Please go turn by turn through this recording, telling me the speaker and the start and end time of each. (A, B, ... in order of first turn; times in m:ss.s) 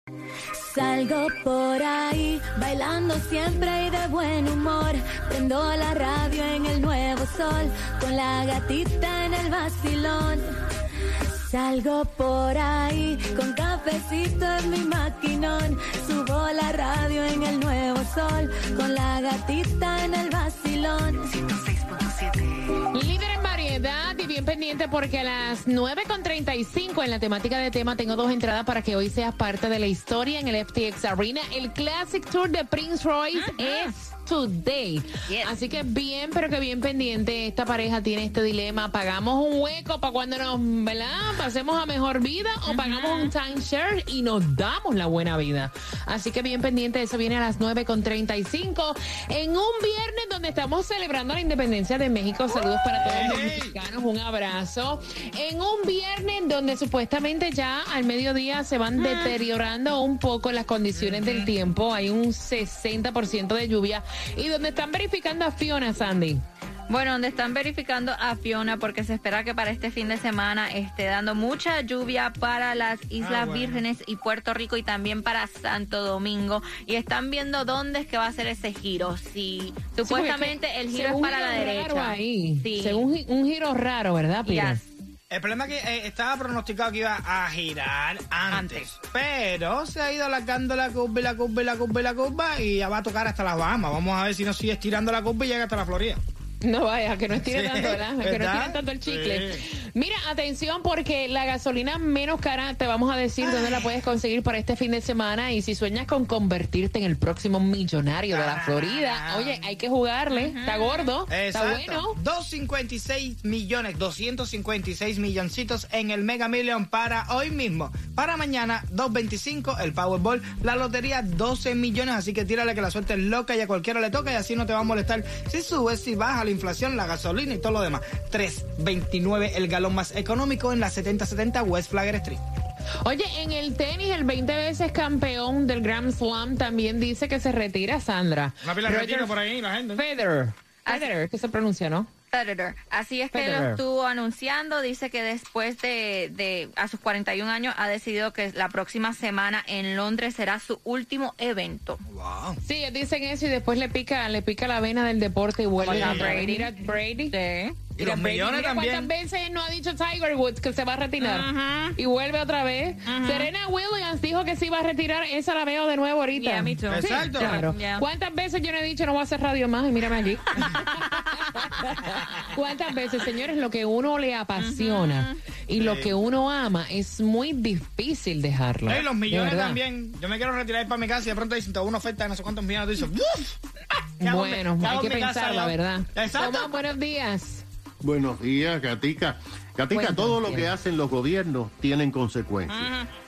0:00.6-0:10.6 A
0:11.4-0:22.4 A
0:22.9-1:06.4 B
0:33.3-0:33.9 C
0:35.3-0:35.5 C
0:42.7-0:43.3 C
0:52.9-0:53.8 D
0:59.0-0:59.3 C
1:01.0-1:01.5 D
1:06.9-1:23.1 C
1:13.2-1:13.8 D
1:20.0-1:24.8 B
1:24.5-1:24.8 C
1:25.3-1:36.2 D
1:28.5-1:28.9 C
1:36.6-1:52.2 B
1:37.3-1:39.6 D
1:43.4-1:43.9 D
1:48.3-1:49.6 D
1:50.3-1:51.1 C
1:51.3-2:12.4 D
2:13.0-2:19.3 B
2:18.6-2:20.0 D
2:20.0-2:22.1 B
2:22.3-2:32.0 C
2:23.3-2:23.8 B
2:32.1-2:32.6 D
2:32.6-2:37.3 B
2:35.8-2:36.7 C
2:35.8-2:36.5 D
2:37.3-2:38.2 C
2:38.0-2:39.1 D
2:38.0-2:50.8 B
2:41.2-2:42.0 C
2:43.1-2:43.5 C
2:46.3-2:48.0 C
2:46.9-2:47.7 D
2:51.5-2:59.8 B
2:54.6-2:55.4 C
2:55.8-2:56.1 D
2:58.9-3:03.6 D
3:04.2-3:07.6 B
3:04.2-3:06.7 D
3:08.0-3:12.9 E
3:09.9-3:10.7 B
3:12.7-3:13.0 D